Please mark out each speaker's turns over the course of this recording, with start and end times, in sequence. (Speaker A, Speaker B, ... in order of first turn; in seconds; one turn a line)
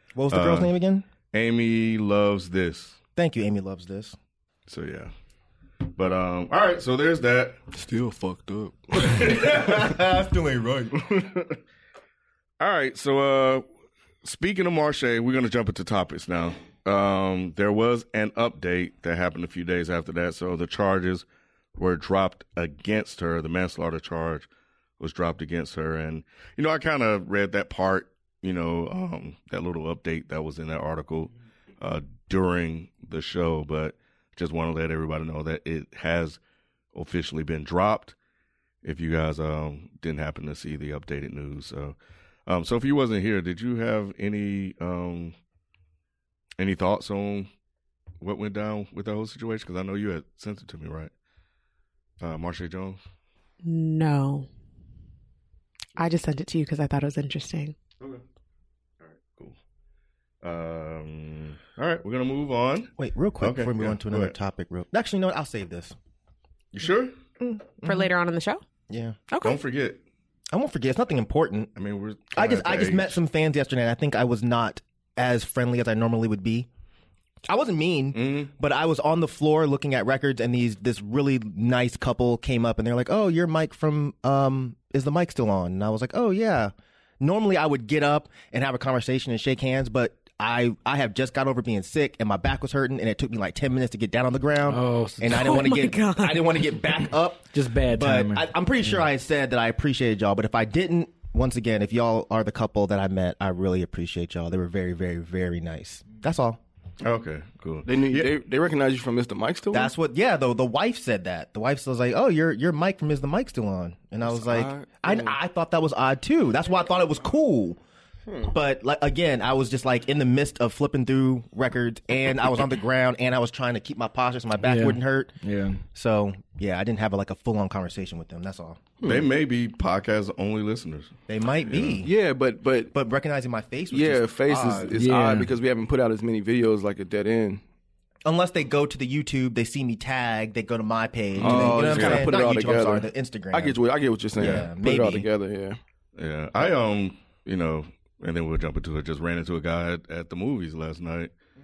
Speaker A: 0.1-1.1
Speaker B: 0.3-0.7
Speaker B: 1.3-3.0
Speaker A: 3.2-4.2
Speaker B: 4.7-5.1
Speaker B: 6.0-7.6
Speaker C: 7.7-9.6
Speaker B: 9.0-10.0
Speaker A: 9.2-11.0
Speaker C: 11.0-11.4
Speaker B: 12.6-13.7
Speaker B: 14.2-21.2
Speaker B: 21.8-24.5
Speaker B: 25.0-36.4
Speaker B: 36.9-38.1
Speaker B: 38.8-42.0
Speaker B: 42.5-45.4
Speaker B: 46.6-47.5
Speaker B: 48.2-51.1
Speaker B: 52.2-53.0
Speaker D: 53.6-54.5
Speaker D: 56.0-57.8
Speaker B: 59.0-59.6
Speaker B: 60.4-64.3
Speaker A: 63.0-66.0
Speaker B: 66.7-67.1
Speaker D: 67.4-68.6
Speaker A: 68.9-69.2
Speaker D: 69.3-69.6
Speaker B: 69.4-70.0
Speaker A: 70.5-71.7
Speaker B: 71.8-73.2
Speaker A: 72.3-76.7
Speaker A: 77.5-106.6
Speaker B: 78.1-78.5
Speaker E: 94.7-95.7
Speaker D: 95.3-96.8
Speaker E: 97.5-98.5
Speaker B: 107.0-108.3
Speaker C: 107.9-109.9
Speaker A: 109.7-117.8
Speaker C: 114.4-115.3
Speaker A: 118.5-125.3
Speaker E: 124.6-125.8
Speaker A: 125.9-128.9
Speaker C: 129.0-129.3
Speaker B: 129.0-132.0
Speaker A: 131.3-132.1
Speaker C: 132.0-132.9
Speaker A: 132.9-134.9
Speaker C: 133.9-137.6
Speaker E: 134.9-135.5
Speaker A: 138.2-143.8
Speaker B: 141.4-142.4
Speaker C: 141.4-145.8
Speaker A: 144.4-145.3
Speaker B: 146.2-151.3